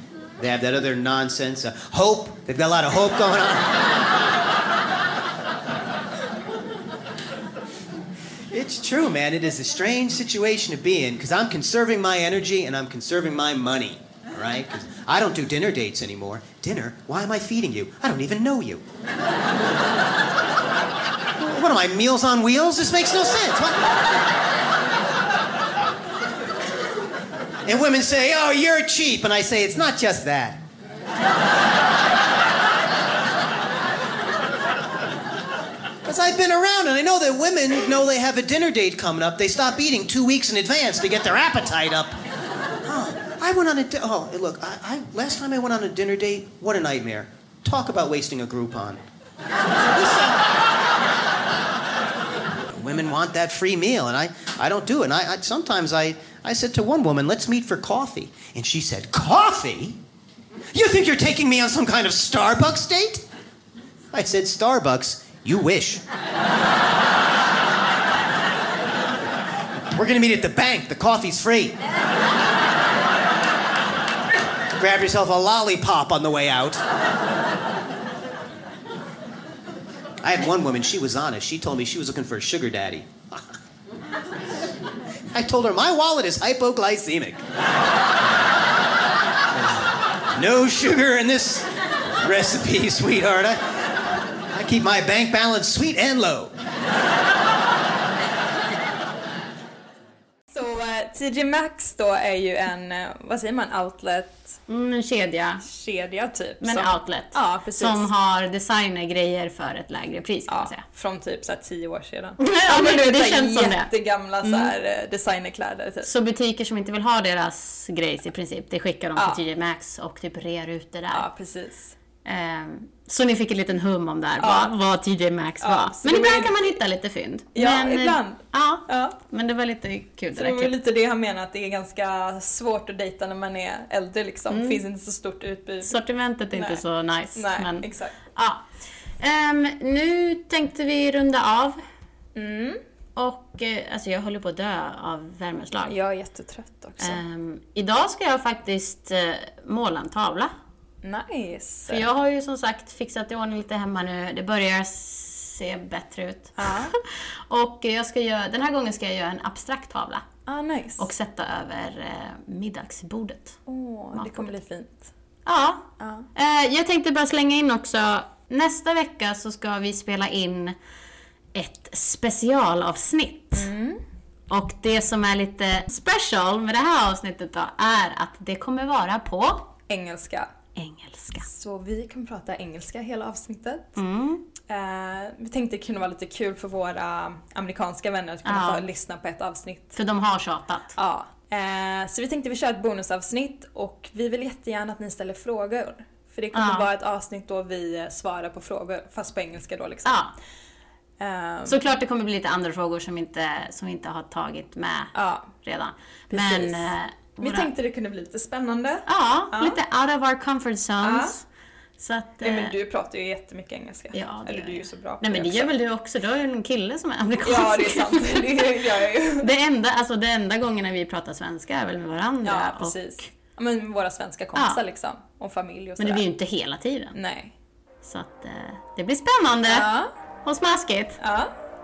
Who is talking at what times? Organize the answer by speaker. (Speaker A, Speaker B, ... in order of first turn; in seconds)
Speaker A: 0.4-3.8, 8.5-18.8, 21.4-23.9, 27.6-30.6, 36.0-42.1, 42.8-49.0, 49.9-50.5, 52.7-60.0, 60.7-63.2, 64.1-66.0, 69.9-71.8, 74.8-76.8, 80.2-83.5, 85.3-87.4, 89.5-89.8, 90.3-93.6, 94.5-96.5
Speaker B: 100.5-104.6, 105.6-108.1, 110.5-116.1, 119.2-119.4, 121.1-122.0, 124.4-124.7, 125.6-126.6, 127.5-129.2, 130.3-136.0, 136.5-136.8, 137.3-138.2, 142.3-142.8, 145.9-147.2, 151.0-152.1, 156.6-156.9, 160.4-161.1, 163.7-165.1, 166.0-166.3, 173.5-174.0, 179.9-180.5, 181.4-184.0, 184.7-190.0, 191.0-200.3, 201.2-201.8, 205.1-205.5, 206.3-206.9, 207.4-209.8, 211.0-211.4, 212.4-215.7, 217.4-219.5, 222.4-226.2, 227.1-227.5, 229.7-230.1, 231.2-231.5
Speaker C: 104.7-105.7, 106.6-110.8, 112.4-113.9, 114.4-114.7, 116.0-121.3, 122.2-130.7, 134.5-134.8, 135.8-138.6, 139.2-141.8, 143.2-145.9, 147.0-150.5, 151.9-160.2, 161.0-163.6, 164.1-164.5, 165.4-170.8, 171.5-173.7, 174.5-179.7, 180.8-181.4, 184.0-184.4, 188.4-188.9, 189.9-190.9, 196.5-196.9, 200.0-200.3, 201.7-207.7, 209.1-211.4, 212.0-212.7, 214.1-218.7, 219.4-223.2, 224.5-224.8, 226.0-227.1, 228.0-229.9, 230.4-231.2